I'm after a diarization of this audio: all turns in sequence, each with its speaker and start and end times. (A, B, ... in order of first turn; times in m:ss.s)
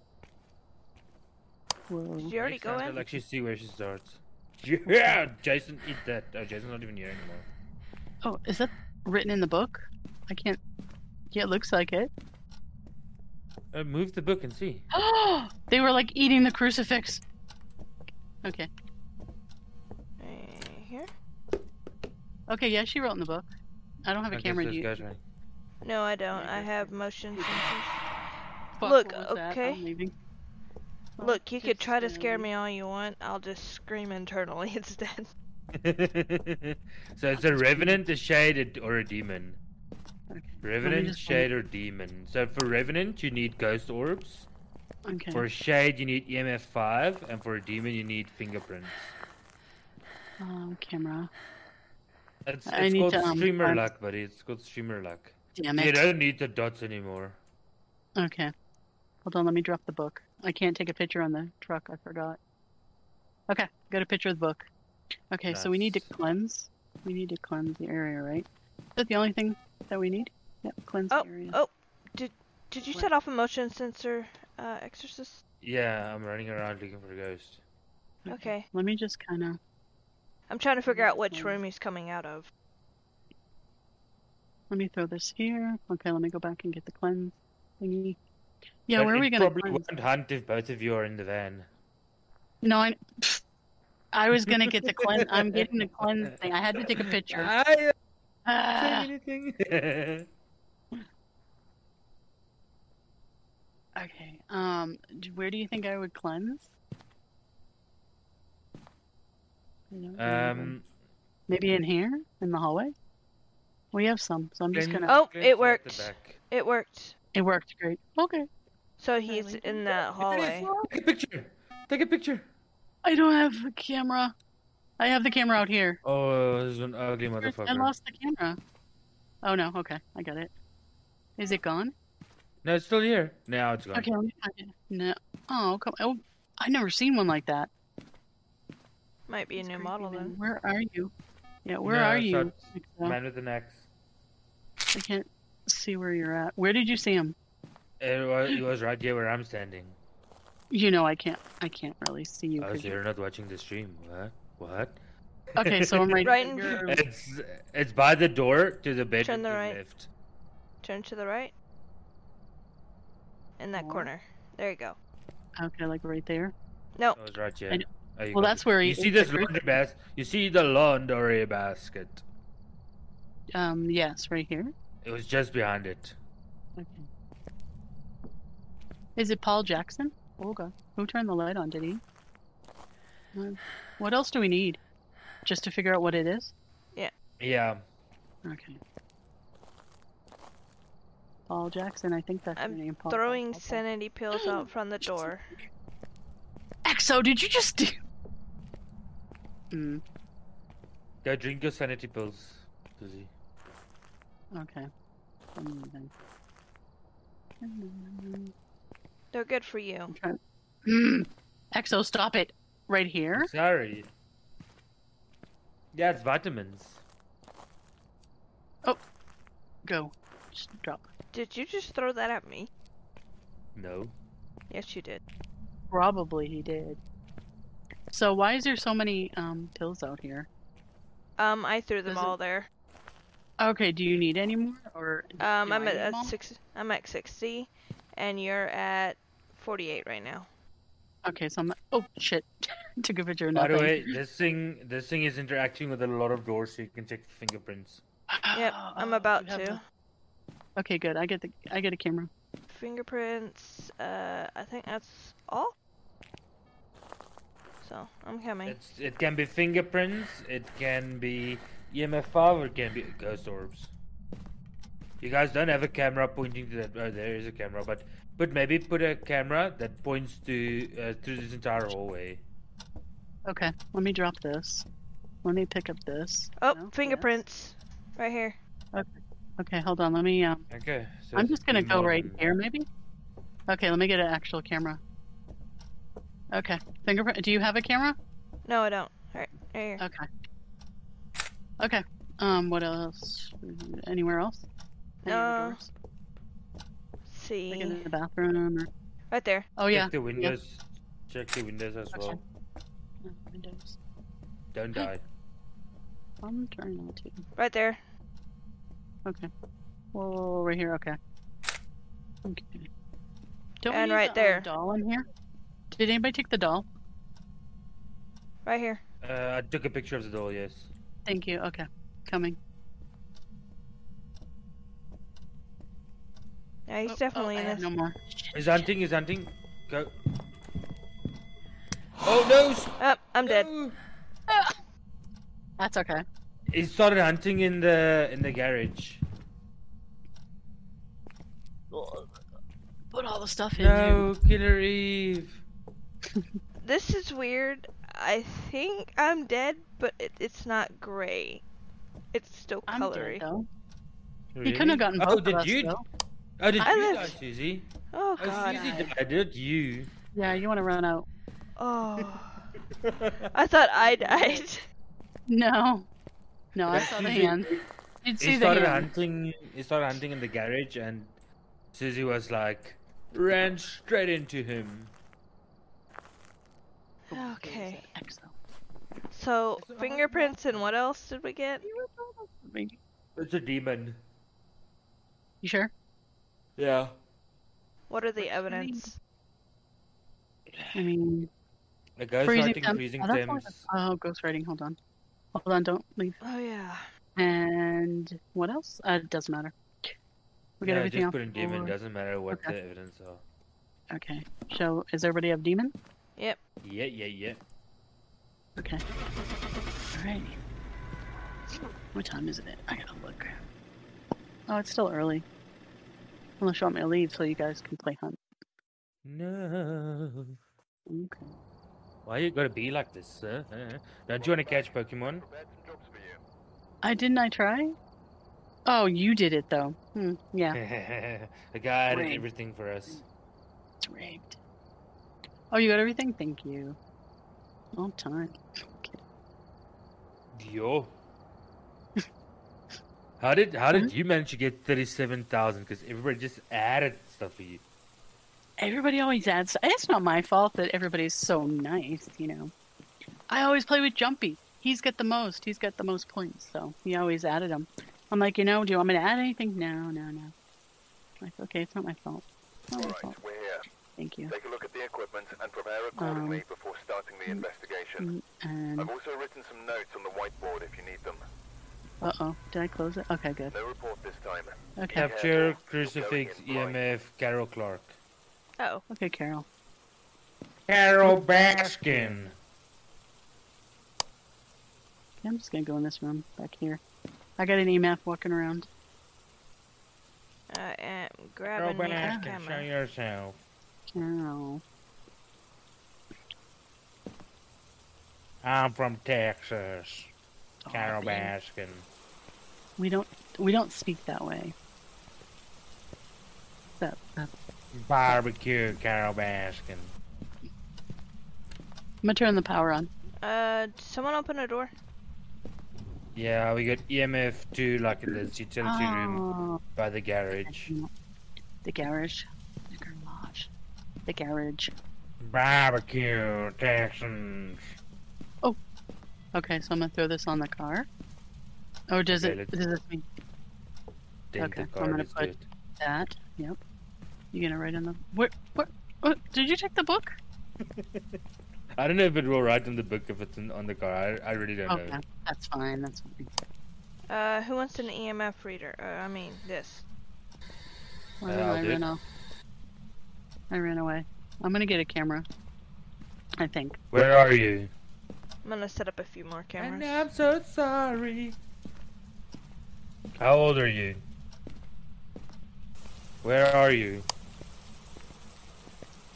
0:01.9-0:02.3 A
0:02.2-0:03.0 B
0:02.4-0:07.5 C
0:04.9-0:05.2 A
0:08.2-0:10.6 A
0:11.3-0:12.1 A
0:13.7-0:14.8 C
0:14.9-0:17.2 A
0:18.4-0:18.7 A
0:20.2-0:21.1 B
0:22.5-0:23.5 A
0:24.0-0:25.0 A
0:24.3-0:25.2 C
0:25.8-0:28.0 B
0:26.3-0:27.7 A
0:28.8-0:30.1 A
0:28.8-0:29.8 B
0:31.2-0:32.5 A
0:31.2-0:35.3 B
0:35.7-0:39.6 C
0:37.4-0:38.0 A
0:40.3-0:41.5 A
0:40.6-0:44.5 C
0:45.1-0:45.4 A
0:45.3-0:49.1 C
0:50.4-0:51.3 A
0:52.5-0:57.4 C
0:52.7-0:53.9 A
0:55.6-0:56.0 A
0:58.2-0:58.5 A
0:59.2-1:02.4 A
1:03.5-1:04.7 A
1:05.3-1:11.6 A
1:05.5-1:06.1 C
1:11.1-1:15.4 B
1:15.6-1:17.6 C
1:18.2-1:19.6 A
1:18.3-1:18.7 B
1:20.5-1:22.5 B
1:20.9-1:21.6 A
1:24.7-1:28.2 A
1:28.9-1:29.9 A
1:29.0-1:31.7 C
1:32.6-1:33.4 A
1:34.1-1:37.5 A
1:34.5-1:35.7 C
1:37.0-1:37.9 C
1:38.5-1:39.1 A
1:38.8-1:40.3 C
1:44.0-1:46.7 A
1:49.9-1:50.8 A
1:50.2-1:50.9 C
1:51.5-1:52.9 A
1:53.9-1:55.1 A
1:54.7-1:56.4 C
1:55.1-1:57.2 B
1:57.3-1:58.5 A
1:59.0-2:00.7 B
1:59.3-2:00.1 A
2:00.2-2:02.5 C
2:03.0-2:04.4 A
2:05.0-2:06.0 A
2:06.0-2:07.9 C
2:07.4-2:08.6 A
2:09.4-2:10.5 A
2:11.4-2:11.9 A
2:12.6-2:14.1 C
2:13.9-2:17.7 A
2:19.3-2:20.4 B
2:19.6-2:21.1 A
2:21.6-2:23.2 A
2:21.8-2:23.9 C
2:24.9-2:27.4 A
2:28.0-2:30.0 C
2:30.7-2:33.0 A
2:32.6-2:35.0 C
2:35.6-2:36.2 C
2:35.6-2:37.0 A
2:36.2-2:36.8 B
2:36.9-2:40.1 C
2:39.2-2:39.8 B
2:40.8-2:41.5 B
2:43.6-2:45.0 B
2:43.8-2:44.1 A
2:45.6-2:46.5 A
2:47.2-2:52.2 C
2:47.7-2:49.6 A
2:53.6-2:54.7 A
2:55.0-2:56.2 C
2:56.8-2:57.1 A
2:59.2-3:02.0 A
3:03.3-3:04.8 A
3:05.4-3:06.5 A
3:07.4-3:07.8 C
3:08.4-3:08.8 A
3:11.5-3:13.8 A
3:12.6-3:15.5 B
3:14.4-3:15.7 A
3:16.8-3:18.0 A
3:19.7-3:20.0 A
3:21.2-3:23.3 C
3:24.6-3:24.9 A
3:25.6-3:26.1 A
3:27.6-3:28.5 A
3:29.3-3:30.2 B
3:30.1-3:33.5 A
3:33.3-3:34.1 C
3:35.9-3:37.0 C
3:39.9-3:41.0 A
3:41.3-3:42.7 B
3:43.8-3:44.1 C
3:44.7-3:45.2 B
3:45.9-3:47.0 A
3:48.1-3:50.5 A
3:51.4-3:52.7 B
3:52.1-3:52.4 A
3:53.6-3:56.4 A
3:55.4-4:00.5 B
4:01.2-4:04.2 A
4:03.6-4:08.0 C
4:08.3-4:09.8 A
4:08.5-4:09.8 B
4:10.8-4:12.3 A
4:12.7-4:15.7 B
4:17.8-4:18.8 B
4:18.7-4:23.9 C
4:25.2-4:32.4 C
4:33.5-4:34.9 A
4:35.4-4:37.4 A
4:36.6-4:38.6 B
4:38.9-4:40.7 A
4:40.7-4:42.4 C
4:41.4-4:42.9 A
4:43.7-4:45.0 A
4:46.5-4:48.2 A
4:48.7-4:50.0 B
4:50.0-4:50.3 A
4:51.8-4:54.6 A
4:55.2-4:55.9 A
4:55.3-4:55.8 B
4:57.3-4:58.1 B
4:57.7-4:58.9 A
4:59.3-4:59.7 B
4:59.8-5:00.5 A
4:59.9-5:02.4 C
5:02.1-5:02.4 A
5:03.2-5:04.0 A
5:04.7-5:05.2 C
5:06.4-5:07.4 A
5:07.6-5:08.0 B
5:10.1-5:11.2 A
5:12.4-5:12.9 A
5:13.8-5:15.2 A
5:13.9-5:14.7 B
5:15.9-5:16.9 A
5:18.6-5:19.0 B
5:19.2-5:20.9 C
5:21.3-5:22.6 A
5:26.9-5:27.9 B
5:27.1-5:28.9 A
5:28.5-5:30.1 C
5:32.2-5:34.0 C
5:33.0-5:33.7 B
5:34.5-5:34.8 A
5:35.8-5:36.2 A
5:36.7-5:39.2 C
5:41.9-5:42.3 A
5:43.1-5:44.3 A
5:43.8-5:45.6 C
5:46.2-5:46.6 A
5:46.8-5:51.6 B
5:52.3-5:53.4 B
5:52.9-5:53.7 A
5:54.5-5:56.0 C
5:54.6-5:56.0 A
5:56.6-5:57.9 C
5:56.8-5:57.3 A
5:56.8-5:57.4 B
5:58.1-5:58.9 B
5:58.4-5:59.1 A
5:58.4-6:00.1 C
6:00.4-6:01.3 A
6:01.8-6:02.6 B
6:03.0-6:03.5 C
6:03.5-6:04.8 B
6:04.0-6:04.6 A
6:05.5-6:06.1 A
6:06.8-6:07.7 A
6:06.9-6:07.8 C
6:08.2-6:09.1 A
6:08.4-6:11.3 C
6:11.9-6:15.1 C
6:17.3-6:18.5 A
6:17.3-6:18.1 B
6:19.3-6:21.8 B
6:19.8-6:20.8 C
6:20.3-6:20.6 A
6:21.8-6:23.0 A
6:23.4-6:24.2 C
6:25.6-6:25.9 A
6:26.8-6:27.1 C
6:28.1-6:29.2 B
6:28.4-6:29.1 A
6:30.7-6:31.0 C
6:31.0-6:31.5 A
6:32.2-6:33.9 C
6:32.4-6:35.0 A
6:35.6-6:36.4 A
6:36.4-6:37.1 B
6:37.4-6:40.1 A
6:40.8-6:41.9 A
6:40.8-6:43.4 C
6:44.1-6:45.9 A
6:46.8-6:47.6 C
6:48.8-6:49.0 A
6:50.1-6:50.6 A
6:52.1-6:53.6 A
6:54.7-6:55.5 A
6:56.6-6:58.4 A
6:59.2-7:00.6 C
7:01.1-7:01.6 A
7:02.3-7:05.4 C
7:04.4-7:06.4 D
7:07.0-7:08.0 A
7:08.9-7:10.8 A
7:10.7-7:13.2 C
7:12.1-7:12.5 A
7:14.0-7:14.6 A
7:15.7-7:17.0 A
7:18.0-7:19.2 A
7:20.5-7:21.1 C
7:23.4-7:27.8 C
7:28.8-7:32.7 A
7:33.5-7:40.5 A
7:41.4-7:43.4 A
7:43.0-7:43.9 D
7:44.2-7:44.5 A
7:44.5-7:48.3 D
7:46.2-7:46.6 A
7:48.2-7:49.1 A
7:49.0-7:51.4 D
7:52.2-7:53.7 A
7:53.7-7:57.0 D
7:55.0-7:55.3 A
7:55.1-7:58.2 C
7:58.8-7:59.0 B
7:59.1-7:59.7 A
8:00.9-8:02.5 C
8:01.2-8:02.5 A
8:05.4-8:07.0 A
8:07.6-8:08.9 A
8:10.7-8:12.9 B
8:11.8-8:13.6 C
8:12.2-8:12.5 A
8:14.2-8:14.8 A
8:18.6-8:20.3 C
8:20.8-8:21.5 A
8:20.9-8:22.0 C
8:23.0-8:24.8 A
8:27.0-8:27.5 A
8:27.9-8:30.1 C
8:32.2-8:33.1 A
8:33.4-8:34.9 B
8:36.4-8:39.4 C
8:38.3-8:39.8 A
8:40.0-8:40.9 C
8:40.5-8:41.1 A
8:41.8-8:43.7 A
8:44.3-8:44.9 A
8:45.4-8:47.9 C
8:49.6-8:51.1 A
8:52.1-8:53.2 A
8:52.3-8:52.8 C
8:54.5-8:55.7 C
8:54.6-8:56.8 A
8:57.5-9:00.4 A
9:00.9-9:01.4 C
9:02.0-9:05.2 C
9:04.9-9:06.5 A
9:07.3-9:10.0 B
9:11.4-9:12.2 A
9:11.5-9:12.1 C
9:13.7-9:15.5 A
9:16.6-9:17.0 A
9:17.1-9:17.9 C
9:18.6-9:20.3 B
9:19.8-9:21.6 C
9:23.4-9:24.2 C
9:26.4-9:27.3 C